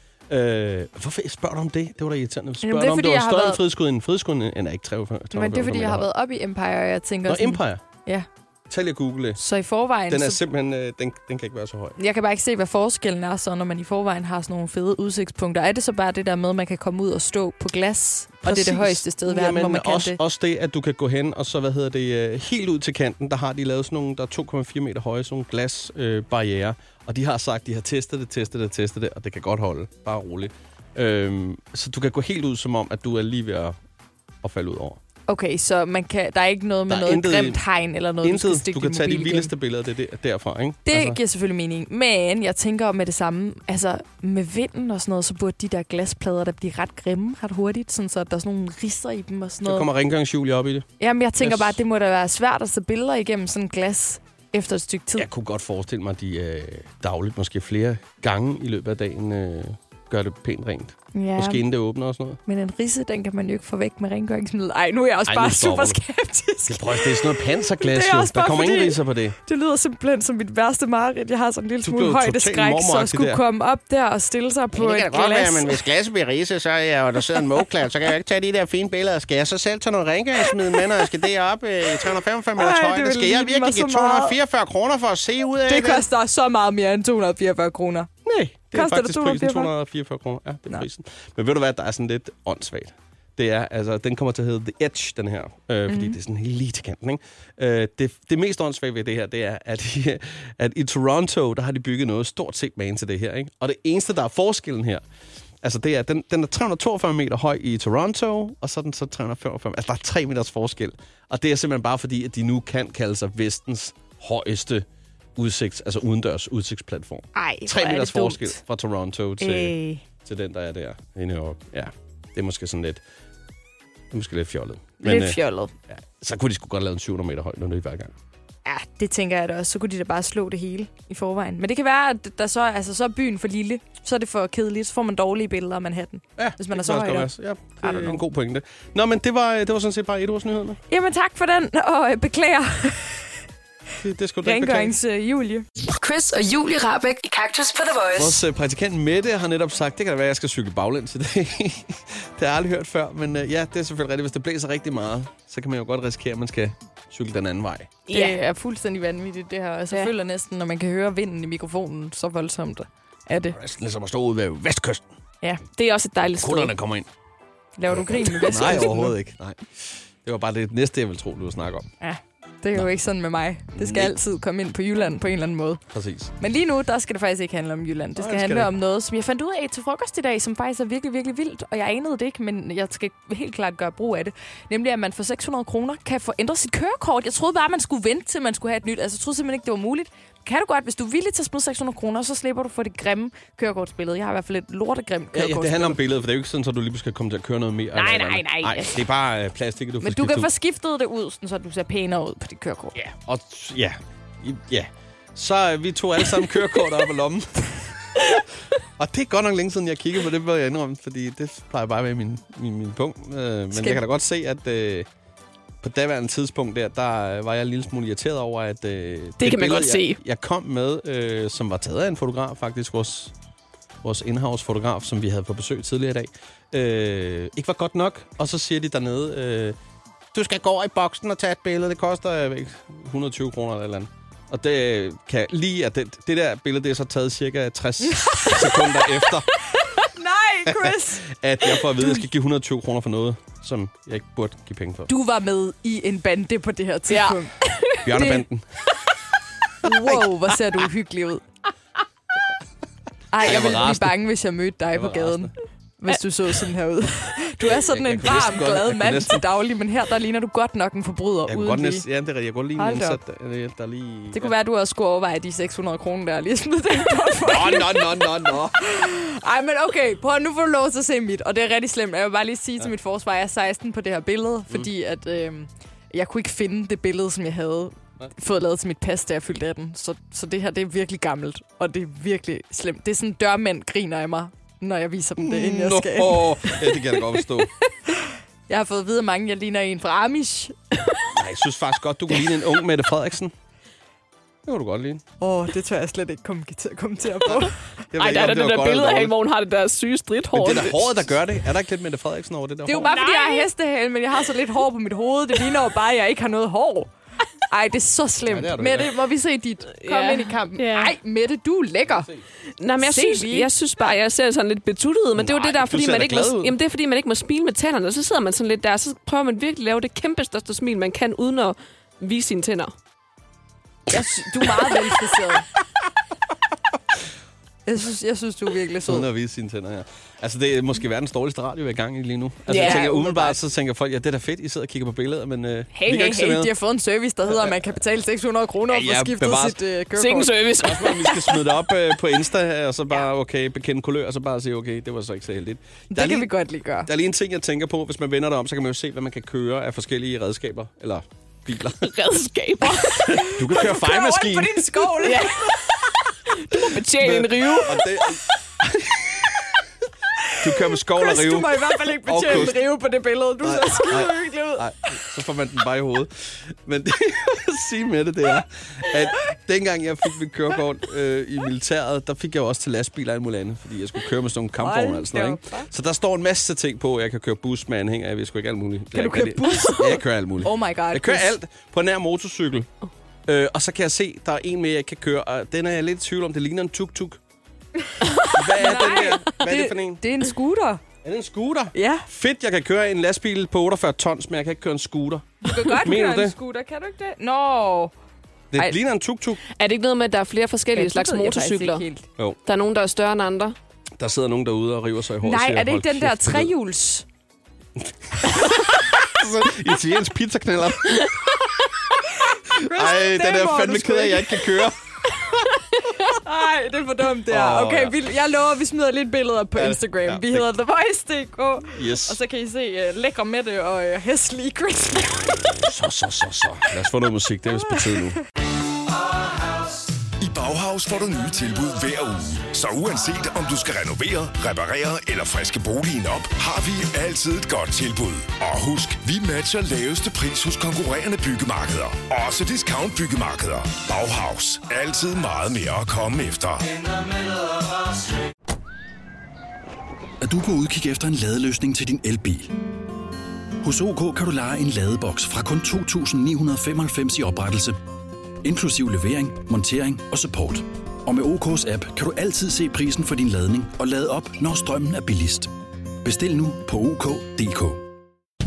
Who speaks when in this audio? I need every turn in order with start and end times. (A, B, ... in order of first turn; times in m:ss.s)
0:00.3-0:06.1 A
0:02.6-0:03.6 B
0:05.3-0:08.3 B
0:07.3-0:07.8 A
0:08.7-0:09.4 A
0:09.4-0:10.4 B
0:10.1-0:12.0 A
0:12.0-0:20.2 B
0:18.4-0:33.8 A
0:34.4-0:35.0 A
0:35.3-0:39.5 B
0:36.9-0:37.6 A
0:38.2-0:41.2 A
0:40.9-0:49.9 B
0:49.6-0:50.8 A
0:51.0-0:55.3 B
0:51.4-0:51.8 A
0:55.2-1:02.4 A
1:01.1-1:01.6 B
1:02.4-1:15.8 B
1:05.3-1:06.0 A
1:06.7-1:09.4 A
1:11.8-1:13.4 A
1:14.7-1:26.0 A
1:20.4-1:21.1 B
1:21.9-1:24.3 B
1:25.6-1:28.1 B
1:28.2-1:45.0 A
1:28.7-1:29.7 B
1:35.9-1:36.2 B
1:45.6-1:54.8 A
1:55.4-2:03.0 A
1:57.3-1:58.6 B
1:59.4-2:00.0 B
2:04.1-2:05.4 A
2:05.0-2:05.7 B
2:05.9-2:08.1 A
2:08.6-2:17.3 B
2:16.4-2:20.8 A
2:17.8-2:18.2 B
2:20.9-2:23.3 B
2:24.0-2:24.9 A
2:24.4-2:25.6 B
2:26.0-2:28.4 C
2:28.2-2:37.9 A
2:38.1-2:38.4 D
2:38.1-2:43.6 B
2:43.5-2:45.0 A
2:45.8-2:46.7 D
2:46.4-2:47.1 A
2:47.8-2:49.2 B
2:47.9-2:51.9 A
2:52.0-2:55.8 B
2:53.8-2:54.1 A
2:55.9-2:56.3 A
2:56.4-3:16.0 B
2:58.2-2:58.7 A
3:15.3-3:20.5 A
3:17.9-3:19.0 B
3:20.0-3:23.0 B
3:22.9-3:28.4 A
3:29.0-3:35.1 A
3:33.7-3:34.0 B
3:35.8-3:43.3 A
3:39.4-3:40.2 D
3:44.0-3:49.8 A
3:50.3-3:59.5 A
3:58.1-3:58.9 B
3:59.8-4:01.2 B
4:00.7-4:05.1 A
4:05.1-4:08.4 B
4:07.1-4:07.9 D
4:08.0-4:08.7 A
4:09.8-4:11.4 B
4:10.1-4:10.6 A
4:13.3-4:22.0 B
4:13.4-4:14.2 A
4:14.9-4:15.5 A
4:17.6-4:19.4 A
4:21.5-4:24.5 A
4:22.8-4:23.2 B
4:24.3-4:50.8 B
4:27.4-4:28.8 A
4:45.4-4:47.7 A
4:51.3-4:53.5 A
4:54.6-4:55.2 A
4:55.4-4:57.8 B
4:58.1-4:59.3 A
4:58.2-5:01.3 D
5:00.6-5:03.1 A
5:02.8-5:07.1 B
5:03.0-5:03.7 D
5:07.7-5:12.3 B
5:08.4-5:09.1 A
5:10.0-5:11.2 D
5:12.1-5:12.4 A
5:12.8-5:22.9 D
5:13.0-5:13.7 B
5:15.4-5:16.7 A
5:24.1-5:25.6 B
5:27.8-5:29.3 B
5:29.0-5:36.7 A
5:32.7-5:33.5 D
5:32.7-5:33.5 B
5:36.0-5:40.5 B
5:37.5-5:37.7 A
5:38.9-5:39.8 A
5:40.2-5:41.6 D
5:40.6-5:46.5 A
5:46.1-5:47.1 B
5:47.0-5:52.1 A
5:52.0-5:53.2 D
5:52.9-5:55.7 B
5:53.2-5:55.3 A
5:55.2-5:55.7 D
5:56.5-5:58.1 D
5:57.1-5:59.6 A
6:00.6-6:02.8 A
6:01.1-6:04.8 B
6:03.6-6:22.9 A
6:14.8-6:15.9 B
6:19.1-6:21.5 B
6:23.5-6:27.4 A
6:28.2-6:31.0 B
6:28.5-6:30.2 A
6:28.8-6:29.4 D
6:31.2-6:36.6 A
6:31.9-6:32.2 B
6:35.6-6:38.1 B
6:38.7-6:39.6 A
6:39.7-6:42.0 D
6:40.9-6:42.2 B
6:42.6-6:43.8 D
6:44.2-6:46.7 A
6:45.4-6:47.2 B
6:48.0-6:51.7 A
6:52.8-6:55.0 A
6:52.8-6:54.8 B
6:56.2-7:05.7 B
6:57.5-6:58.2 A
6:59.7-7:00.7 A
7:01.9-7:02.4 A
7:05.7-7:08.4 A
7:07.8-7:08.2 B
7:10.4-7:27.0 E
7:30.4-7:32.8 F
7:33.8-7:38.0 F
7:38.6-7:45.7 F
7:46.2-7:48.0 F